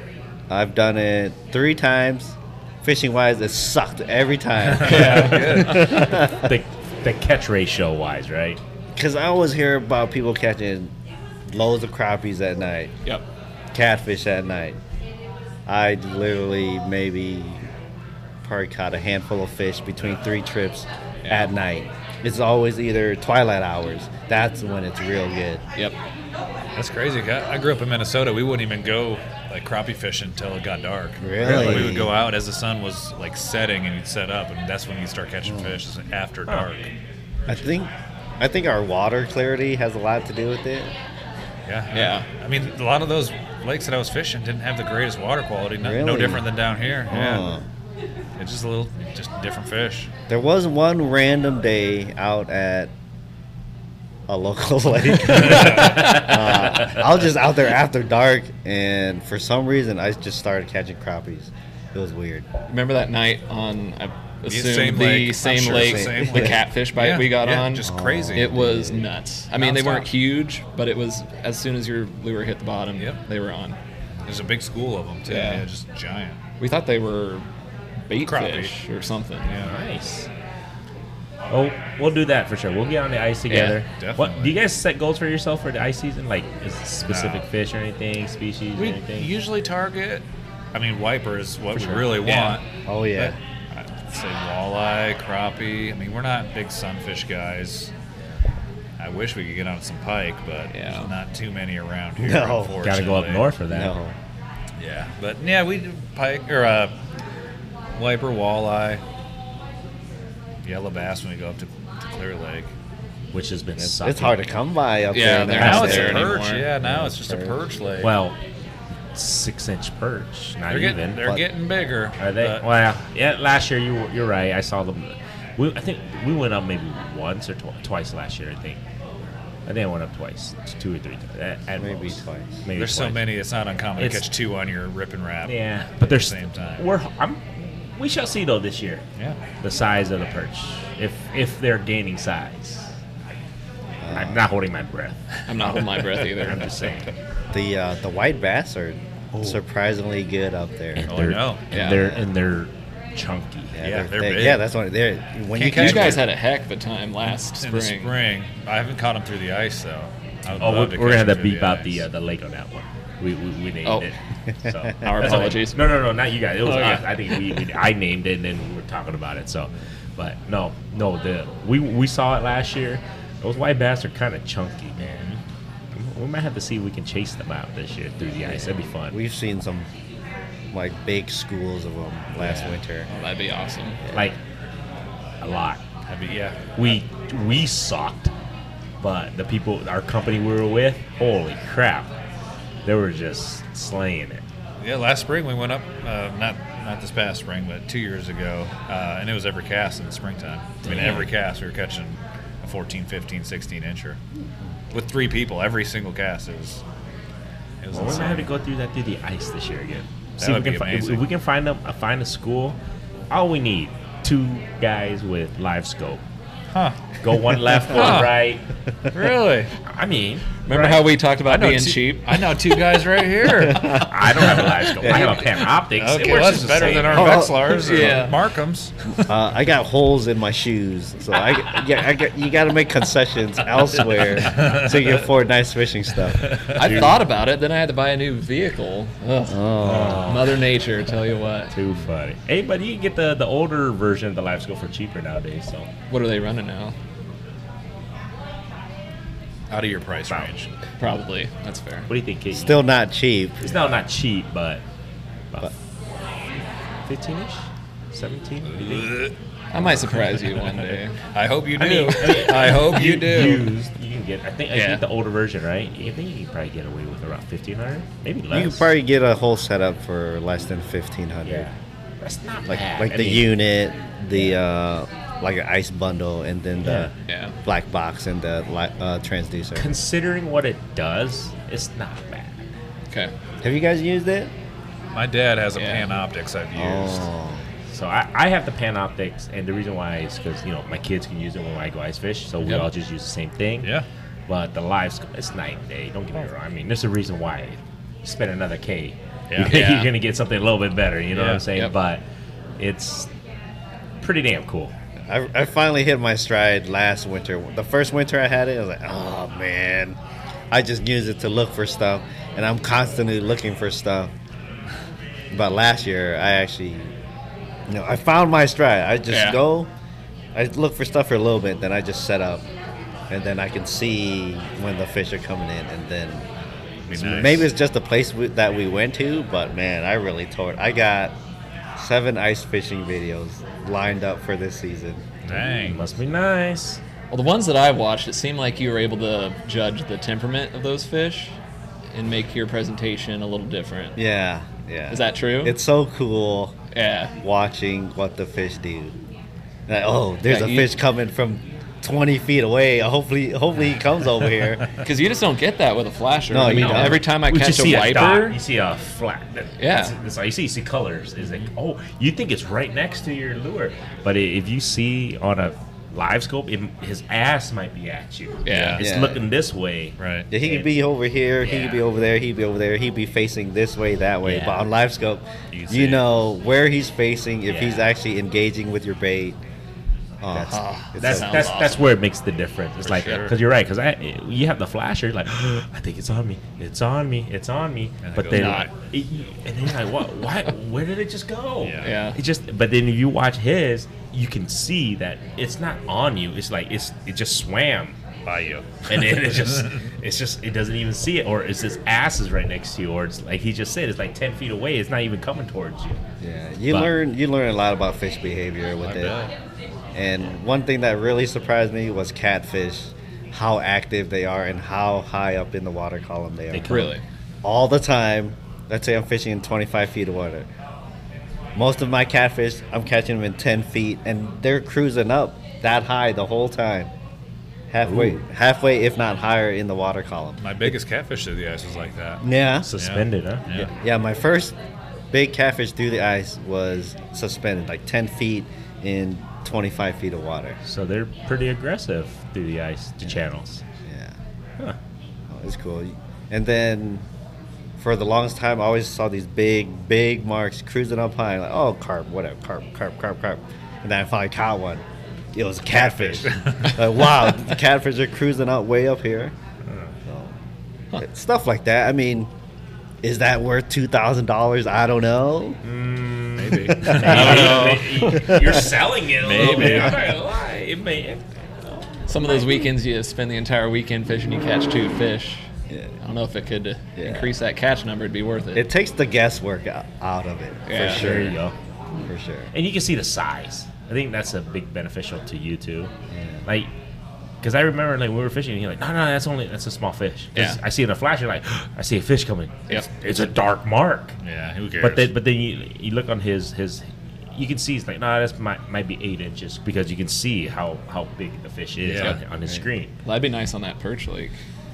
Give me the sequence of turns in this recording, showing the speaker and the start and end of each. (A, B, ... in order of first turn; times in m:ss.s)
0:00.5-0:06.5 A
0:04.7-0:06.0 B
0:04.8-0:05.8 C
0:05.6-0:08.6 D
0:08.9-0:10.9 A
0:11.5-0:12.9 A
0:13.7-0:14.8 A
0:15.7-0:17.7 A
0:18.4-0:25.6 A
0:21.2-0:21.5 C
0:26.8-0:36.9 B
0:31.2-0:32.1 A
0:35.4-0:35.8 A
0:37.5-0:40.9 A
0:41.7-0:47.5 B
0:41.9-0:42.3 C
0:45.8-0:46.5 A
0:47.1-0:47.6 A
0:48.4-0:50.1 B
0:50.3-0:52.9 A
0:54.3-1:02.5 A
0:55.3-0:56.3 B
0:55.7-0:56.2 C
1:02.7-1:13.8 C
1:04.5-1:08.7 B
1:05.4-1:06.6 A
1:07.8-1:09.1 A
1:09.6-1:10.1 B
1:14.2-1:16.4 B
1:15.3-1:15.6 C
1:16.6-1:17.5 C
1:18.1-1:19.5 C
1:18.2-1:18.8 B
1:19.4-1:19.8 B
1:19.6-1:20.3 D
1:21.5-1:29.3 D
1:23.5-1:23.8 C
1:23.9-1:24.6 B
1:27.1-1:27.4 B
1:28.8-1:37.9 B
1:31.7-1:32.5 D
1:32.3-1:32.6 C
1:32.8-1:33.4 A
1:39.0-1:43.5 B
1:40.7-1:41.1 C
1:42.2-1:42.8 A
1:42.8-1:44.0 D
1:43.7-1:44.2 A
1:44.8-1:47.0 B
1:47.9-1:49.0 B
1:50.6-1:52.7 B
1:53.3-1:54.4 D
1:53.8-1:57.6 A
1:55.1-1:56.7 C
1:55.5-1:58.1 B
1:58.0-1:58.4 D
1:59.1-2:01.4 D
2:00.7-2:02.7 B
2:02.2-2:08.8 D
2:09.7-2:13.3 D
2:11.8-2:12.6 A
2:12.8-2:16.8 B
2:14.0-2:14.3 D
2:15.5-2:19.0 D
2:19.6-2:23.0 D
2:24.0-2:24.5 A
2:24.1-2:27.1 D
2:25.5-2:26.7 C
2:27.5-2:31.1 A
2:31.0-2:33.8 D
2:31.1-2:31.6 B
2:31.7-2:32.1 C
2:31.8-2:32.3 A
2:33.7-2:36.2 A
2:33.8-2:34.6 B
2:35.5-2:36.3 B
2:35.7-2:38.1 C
2:37.6-2:42.0 B
2:40.5-2:55.4 D
2:44.6-2:45.3 A
2:45.0-2:45.9 C
2:46.6-2:47.4 C
2:55.1-2:55.3 B
2:55.9-2:59.2 D
2:58.5-2:59.9 A
3:00.7-3:03.1 A
3:02.4-3:02.8 D
3:03.1-3:04.0 C
3:04.0-3:04.3 A
3:04.1-3:04.4 D
3:05.4-3:05.8 D
3:06.1-3:06.7 B
3:06.8-3:08.3 D
3:09.0-3:12.1 D
3:12.8-3:14.4 D
3:14.8-3:24.2 B
3:20.8-3:21.2 D
3:24.9-3:26.8 B
3:27.8-3:28.5 B
3:27.9-3:32.8 D
3:30.4-3:31.3 B
3:33.3-3:36.2 D
3:36.7-3:37.0 B
3:37.2-3:38.6 D
3:37.8-3:38.4 B
3:39.1-3:39.7 B
3:39.8-3:41.1 D
3:40.7-3:42.6 C
3:41.5-3:44.6 B
3:43.6-3:44.0 A
3:43.8-3:47.5 D
3:45.0-3:45.4 A
3:46.0-3:49.2 B
3:47.1-3:48.1 A
3:47.6-3:48.4 C
3:49.2-3:56.5 A
3:54.4-3:55.2 B
3:56.2-3:57.1 B
3:56.7-4:01.7 C
3:56.7-3:57.2 D
3:59.5-4:00.3 A
3:59.8-4:00.6 D
4:01.7-4:05.9 D
4:06.1-4:07.0 C
4:09.7-4:10.7 B
4:10.3-4:10.6 D
4:11.0-4:12.1 C
4:12.1-4:12.8 D
4:12.5-4:13.6 A
4:13.6-4:14.8 D
4:17.1-4:19.1 D
4:18.7-4:23.7 B
4:19.7-4:21.2 C
4:21.8-4:28.9 D
4:22.0-4:22.4 C
4:24.7-4:25.0 C
4:28.5-4:31.7 A
4:31.5-4:33.5 D
4:32.7-4:37.1 A
4:36.8-4:37.1 D
4:37.3-4:37.6 C
4:37.6-4:39.9 A
4:39.8-4:42.7 D
4:43.6-4:44.5 A
4:45.1-4:47.3 B
4:45.8-4:46.1 C
4:46.8-4:47.6 A
4:47.9-4:53.9 D
4:54.5-5:02.2 D
4:59.5-4:59.8 B
4:59.7-5:00.1 C
5:01.3-5:01.6 B
5:02.8-5:03.3 D
5:04.2-5:04.9 D
5:05.2-5:10.2 A
5:10.7-5:14.3 A
5:15.5-5:17.1 A
5:17.9-5:19.9 A
5:19.3-5:19.6 C
5:20.5-5:22.6 A
5:23.3-5:31.4 A
5:27.1-5:27.7 B
5:32.0-5:35.2 A
5:35.4-5:37.0 D
5:35.5-5:36.1 B
5:37.3-5:41.6 C
5:42.1-5:44.2 C
5:44.2-5:46.8 A
5:45.1-5:45.8 C
5:46.9-5:47.4 C
5:47.4-5:49.2 A
5:49.9-5:54.8 A
5:50.5-5:50.9 C
5:55.0-5:58.6 C
5:56.5-5:57.2 A
5:56.7-6:10.9 D
5:59.8-6:00.2 C
6:08.6-6:09.0 C
6:08.7-6:09.0 B
6:09.0-6:09.4 A
6:10.2-6:10.5 B
6:10.5-6:19.6 A
6:14.4-6:14.8 D
6:15.7-6:16.2 D
6:17.7-6:18.0 D
6:20.4-6:21.8 A
6:20.6-6:22.1 C
6:21.2-6:38.2 D
6:23.0-6:23.6 B
6:28.2-6:28.9 B
6:28.5-6:28.9 C
6:31.8-6:32.2 B
6:32.0-6:32.4 C
6:38.4-6:40.1 B
6:39.1-6:46.2 D
6:46.4-6:49.4 A
6:49.0-6:49.5 B
6:50.1-6:56.9 A
6:56.7-6:57.2 D
6:56.9-6:57.2 C
6:57.6-7:00.7 A
7:01.8-7:07.1 A
7:07.9-7:10.6 A
7:08.0-7:08.4 D
7:10.6-7:12.4 B
7:12.4-7:12.9 A
7:12.8-7:13.8 D
7:13.0-7:13.9 B
7:13.8-7:14.8 A
7:15.3-7:20.8 A
7:20.8-7:23.8 D
7:24.0-7:24.4 A
7:25.5-7:27.3 A
7:28.0-7:39.5 A
7:36.0-7:36.5 D
7:36.4-7:37.0 B
7:39.9-7:40.1 D
7:40.3-7:40.6 A
7:41.2-7:42.5 A
7:43.2-7:45.8 A
7:45.8-7:51.5 D
7:46.6-7:48.0 B
7:46.9-7:48.8 C
7:47.0-7:48.8 A
7:49.4-7:50.2 B
7:49.6-7:50.1 A
7:49.6-7:50.2 C
7:52.3-7:55.7 C
7:55.9-7:56.2 A
7:56.2-7:58.9 C
7:57.2-7:57.5 A
7:58.7-8:01.6 A
8:00.9-8:01.6 C
8:01.0-8:01.7 D
8:02.2-8:02.7 A
8:02.7-8:06.1 D
8:06.3-8:06.7 A
8:07.6-8:14.4 D
8:14.4-8:15.3 B
8:15.0-8:23.2 D
8:22.0-8:22.4 B
8:23.2-8:24.6 C